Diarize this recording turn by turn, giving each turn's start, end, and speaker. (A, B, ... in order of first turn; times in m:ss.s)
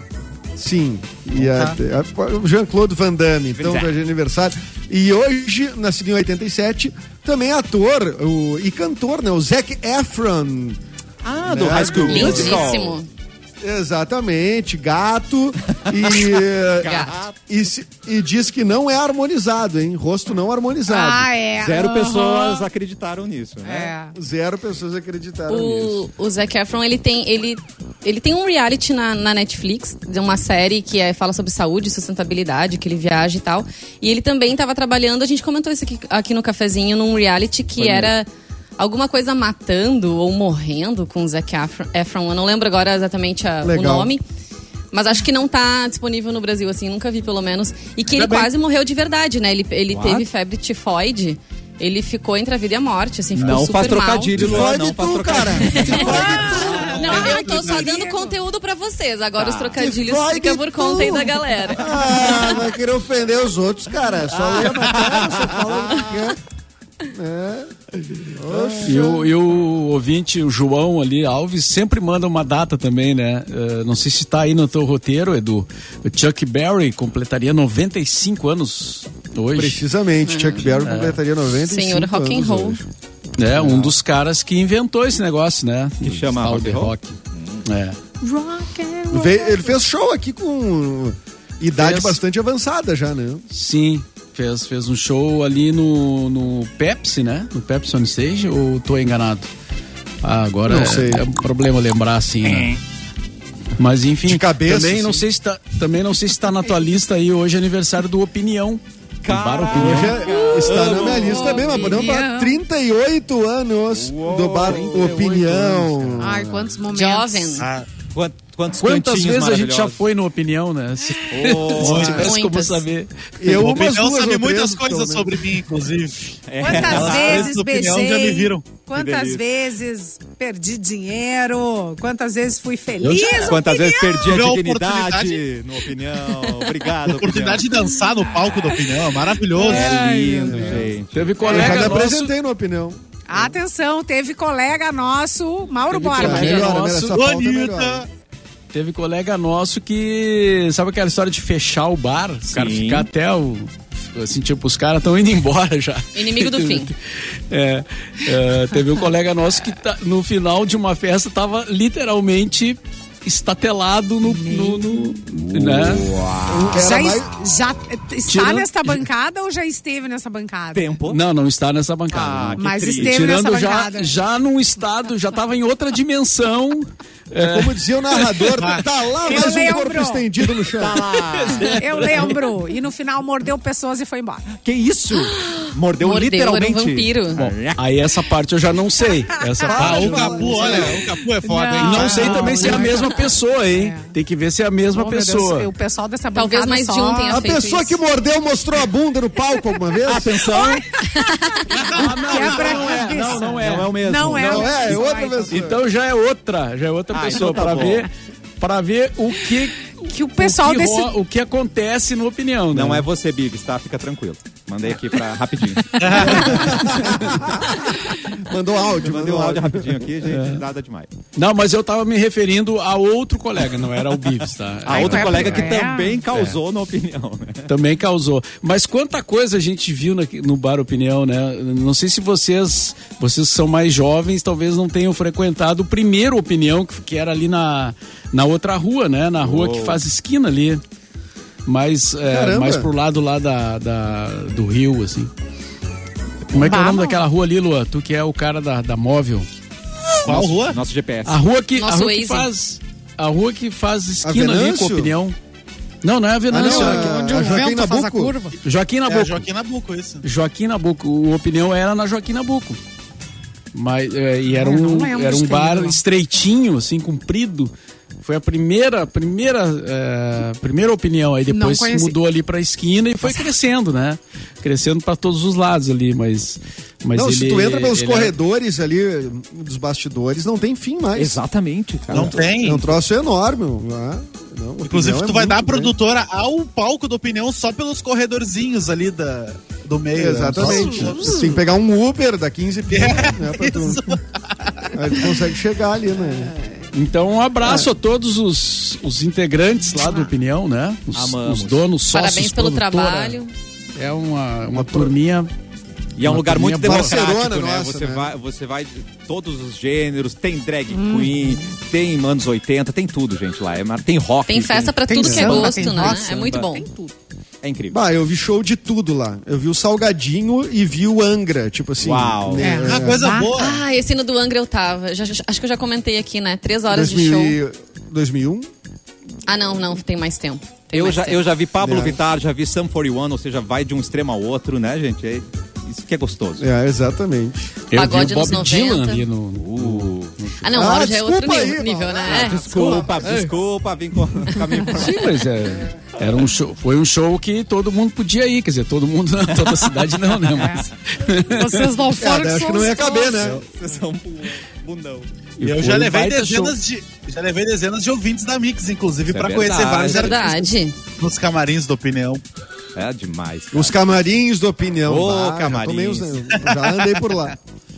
0:00.6-0:10.8 A
0:01.4-0:01.7 B
0:03.5-0:03.9 B
0:11.2-0:13.0 B
0:11.4-0:12.7 A
0:11.9-0:13.1 C
0:13.6-0:21.3 A
0:15.9-0:17.4 B
0:16.8-0:17.1 C
0:20.9-0:22.6 D
0:21.6-0:23.9 B
0:23.6-0:24.2 D
0:24.1-0:26.0 A
0:25.5-0:44.2 C
0:37.8-0:38.1 A
0:43.6-0:44.1 A
0:44.9-0:54.7 C
0:48.2-0:48.4 E
0:49.9-0:50.2 B
0:53.3-0:57.3 B
0:54.3-0:57.2 A
0:55.6-1:02.6 C
0:56.0-0:58.4 D
0:59.4-0:59.8 B
0:59.8-1:06.4 A
1:04.3-1:06.3 B
1:07.1-1:09.3 A
1:08.5-1:08.8 B
1:08.8-1:19.8 F
1:19.5-1:22.8 A
1:20.2-1:20.8 C
1:20.8-1:21.2 F
1:21.6-1:22.8 C
1:23.4-1:28.0 F
1:23.5-1:23.9 A
1:26.0-1:27.6 B
1:28.2-1:29.7 D
1:29.1-1:33.4 A
1:31.7-1:32.2 F
1:33.5-1:39.5 F
1:40.2-1:42.7 F
1:40.6-1:41.2 A
1:42.4-1:42.8 B
1:43.8-1:50.2 F
1:44.2-1:45.2 A
1:49.2-1:51.7 B
1:49.7-1:56.8 A
1:50.3-1:52.6 D
1:51.6-1:51.9 C
1:53.9-1:55.9 B
1:54.6-1:56.1 F
1:56.2-1:57.6 D
1:56.9-1:57.7 C
1:57.6-1:57.9 E
1:58.1-2:00.0 B
1:58.8-2:03.1 F
2:01.3-2:02.2 B
2:01.8-2:02.3 E
2:01.9-2:02.2 A
2:02.1-2:02.8 C
2:03.4-2:05.5 A
2:03.5-2:08.8 E
2:06.5-2:07.5 B
2:06.6-2:14.4 D
2:08.9-2:09.4 B
2:13.0-2:13.4 F
2:13.4-2:17.7 B
2:14.3-2:15.4 E
2:17.1-2:19.9 E
2:19.6-2:21.9 B
2:19.6-2:20.6 D
2:20.4-2:22.3 F
2:20.4-2:20.9 A
2:21.4-2:23.5 A
2:21.4-2:21.9 D
2:23.3-2:26.8 D
2:25.9-2:27.2 F
2:26.2-2:28.0 A
2:27.1-2:28.1 E
2:28.7-2:46.1 F
2:32.5-2:33.1 B
2:36.1-2:36.9 C
2:44.2-2:45.1 D
2:45.6-2:46.8 B
2:46.4-2:47.3 A
2:46.7-2:51.0 D
2:48.2-2:49.0 F
2:50.7-2:51.2 B
2:51.1-2:58.4 F
2:52.1-2:53.2 B
2:52.6-2:54.1 D
2:57.4-3:01.0 A
2:58.6-2:58.8 E
2:59.2-3:00.3 D
3:00.8-3:02.1 B
3:01.3-3:02.3 F
3:01.7-3:04.5 D
3:04.6-3:07.8 B
3:05.1-3:07.4 C
3:07.4-3:10.8 F
3:09.5-3:10.8 D
3:09.6-3:11.1 A
3:09.8-3:13.0 E
3:11.4-3:14.1 D
3:11.8-3:15.7 F
3:14.9-3:17.9 D
3:16.3-3:17.9 C
3:17.3-3:20.5 A
3:20.0-3:20.9 B
3:20.3-3:25.6 D
3:21.2-3:21.7 C
3:21.9-3:24.6 F
3:22.4-3:22.7 E
3:22.4-3:25.0 B
3:24.4-3:25.8 A
3:25.5-3:33.0 F
3:27.1-3:28.1 B
3:30.0-3:31.1 D
3:32.7-3:37.5 B
3:36.0-3:36.7 E
3:36.2-3:40.1 A
3:39.0-3:41.1 B
3:40.2-3:40.6 F
3:41.3-3:45.8 F
3:44.8-3:47.7 B
3:44.9-3:46.2 D
3:47.7-4:00.8 F
3:59.4-4:00.0 B
4:01.6-4:05.3 F
4:02.3-4:02.9 A
4:06.5-4:09.5 F
4:06.5-4:07.2 D
4:10.2-4:10.8 E
4:10.2-4:11.4 B
4:11.2-4:15.3 F
4:11.8-4:12.5 C
4:14.2-4:15.2 A
4:16.0-4:17.6 F
4:16.5-4:18.4 A
4:16.6-4:18.6 D
4:18.6-4:19.4 F
4:19.0-4:20.2 E
4:20.2-4:22.8 F
4:23.7-4:38.3 F
4:24.5-4:26.0 D
4:31.5-4:32.2 D
4:37.1-4:41.4 A
4:41.2-4:42.4 B
4:42.1-4:45.9 A
4:42.1-4:42.9 E
4:44.8-4:51.1 E
4:50.1-4:54.2 A
4:50.7-4:51.6 D
4:52.9-4:54.9 E
4:54.9-4:56.5 A
4:56.4-4:56.7 D
4:56.9-5:03.4 F
4:57.6-4:57.9 A
5:01.1-5:01.9 B
5:02.1-5:03.5 C
5:03.9-5:05.5 F
5:04.7-5:05.1 A
5:06.2-5:15.0 B
5:06.2-5:07.2 F
5:06.8-5:08.3 A
5:10.9-5:11.6 D
5:14.5-5:16.9 C
5:15.1-5:17.1 D
5:15.2-5:15.7 A
5:15.6-5:16.7 B
5:17.6-5:18.0 B
5:17.9-5:23.2 A
5:22.0-5:22.8 B
5:22.6-5:23.6 D
5:22.8-5:23.8 E
5:23.6-5:27.6 C
5:26.9-5:28.7 A
5:29.4-5:31.4 C
5:30.9-5:36.6 B
5:31.8-5:32.2 A
5:36.6-5:37.7 A
5:37.9-5:40.8 F
5:37.9-5:39.2 C
5:39.5-5:40.4 B
5:40.6-5:43.0 C
5:40.7-5:43.5 A
5:42.3-5:45.3 B
5:44.9-5:51.9 F
5:49.5-5:50.1 B
5:50.6-5:50.8 D
5:51.4-5:53.5 D
5:52.2-5:53.6 A
5:53.2-5:55.3 B
5:55.6-5:56.8 F
5:55.6-6:00.6 E
5:59.3-6:00.5 B
6:00.0-6:01.0 C
6:01.2-6:02.4 E
6:03.0-6:03.9 B
6:03.7-6:07.6 A
6:05.1-6:06.5 B